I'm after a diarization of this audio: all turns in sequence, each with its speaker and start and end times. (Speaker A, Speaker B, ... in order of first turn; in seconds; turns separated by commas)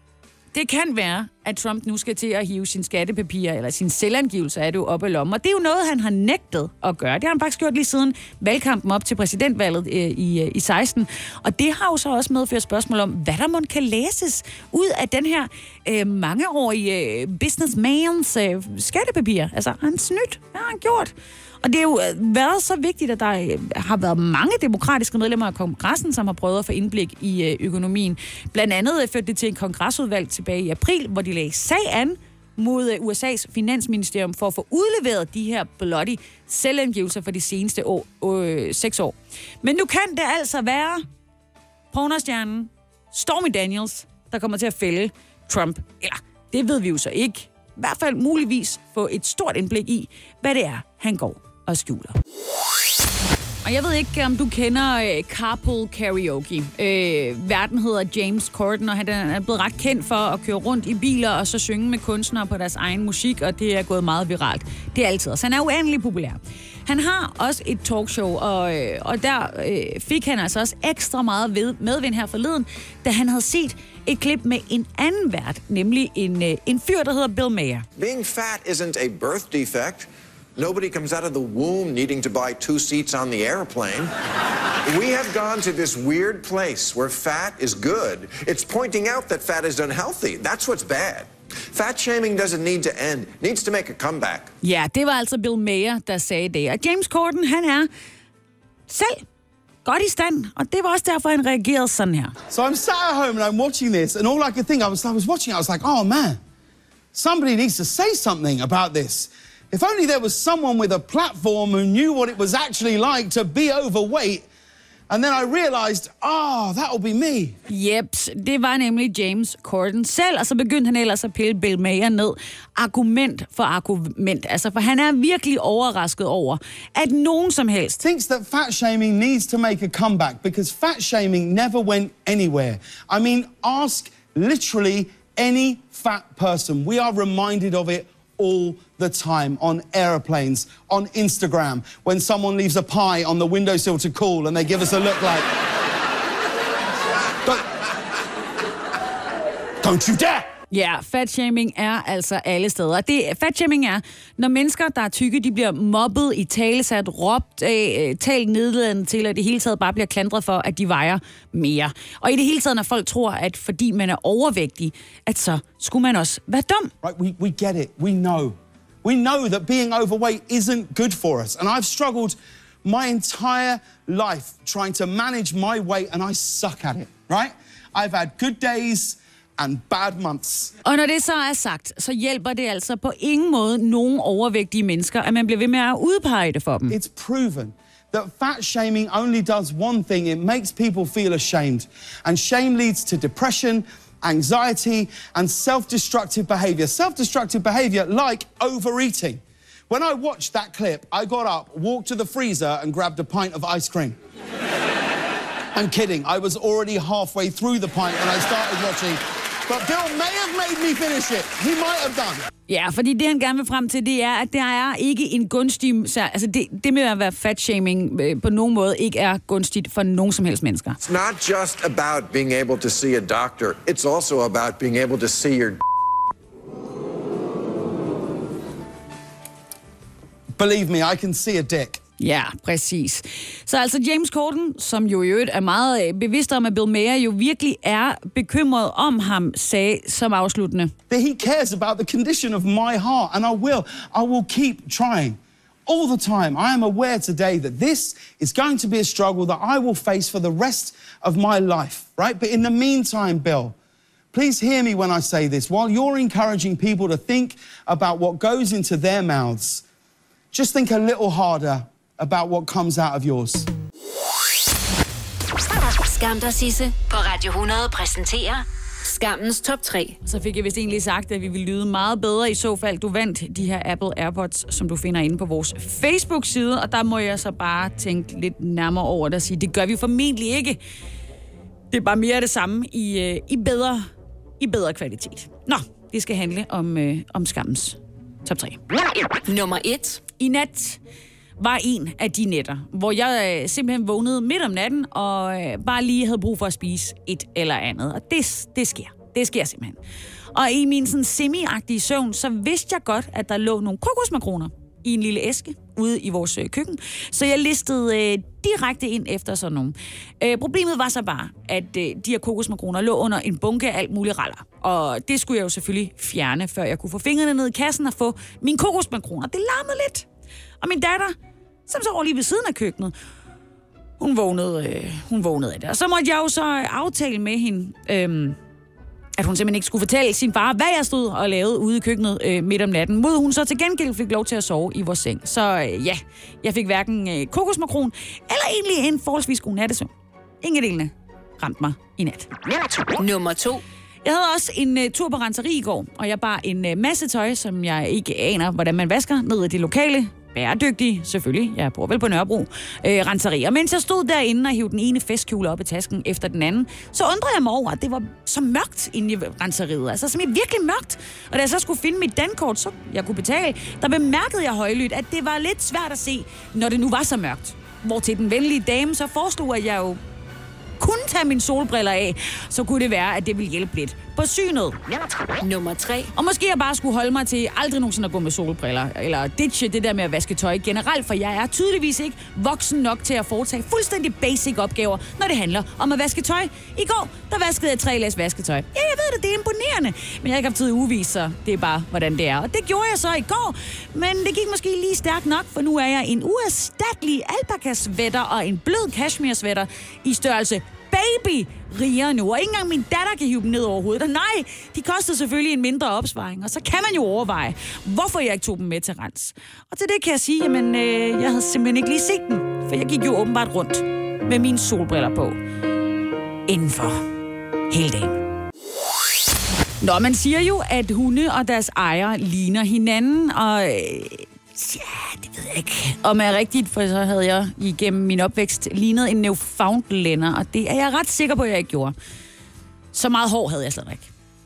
Speaker A: 0.5-41.0, Speaker A: 41.9-52.2, Speaker A: 53.6-77.8, Speaker B: 78.0-84.1, Speaker B: 84.8-94.5, Speaker A: 94.6-97.9, Speaker A: 98.9-99.2, Speaker A: 99.8-102.3, Speaker C: 102.5-106.4, Speaker C: 107.1-114.4, Speaker C: 115.1-117.5, Speaker A: 117.7-128.0, Speaker C: 128.0-145.5, Speaker C: 149.8-150.5, Speaker A: 150.7-166.9, Speaker C: 167.0-180.7, Speaker A: 180.8-186.9, Speaker C: 186.9-204.2, Speaker C: 205.7-212.5, Speaker A: 212.7-221.0, Speaker B: 221.0-225.8, Speaker C: 230.6-232.0, Speaker A: 232.2-240.9, Speaker C: 241.1-253.7, Speaker C: 254.3-259.8, Speaker C: 260.5-263.7, Speaker D: 266.0-270.2, Speaker A: 270.2-280.8, Speaker A: 281.9-284.1, Speaker A: 284.6-288.8, Speaker D: 289.4-290.2, Speaker A: 290.4-291.0, Speaker A: 291.6-299.9, Speaker A: 300.5-320.2, Speaker A: 320.8-321.4, Speaker A: 321.9-323.1, Speaker A: 324.2-328.6, Speaker A: 329.4-340.1, Speaker A: 340.6-342.5, Speaker D: 343.2-343.8, Speaker A: 344.2-370.2, Speaker A: 371.0-375.0, Speaker D: 375.6-376.3, Speaker A: 376.3-415.6, Speaker A: 416.7-417.2, Speaker A: 417.9-418.4, Speaker A: 420.0-432.1, Speaker A: 433.1-434.3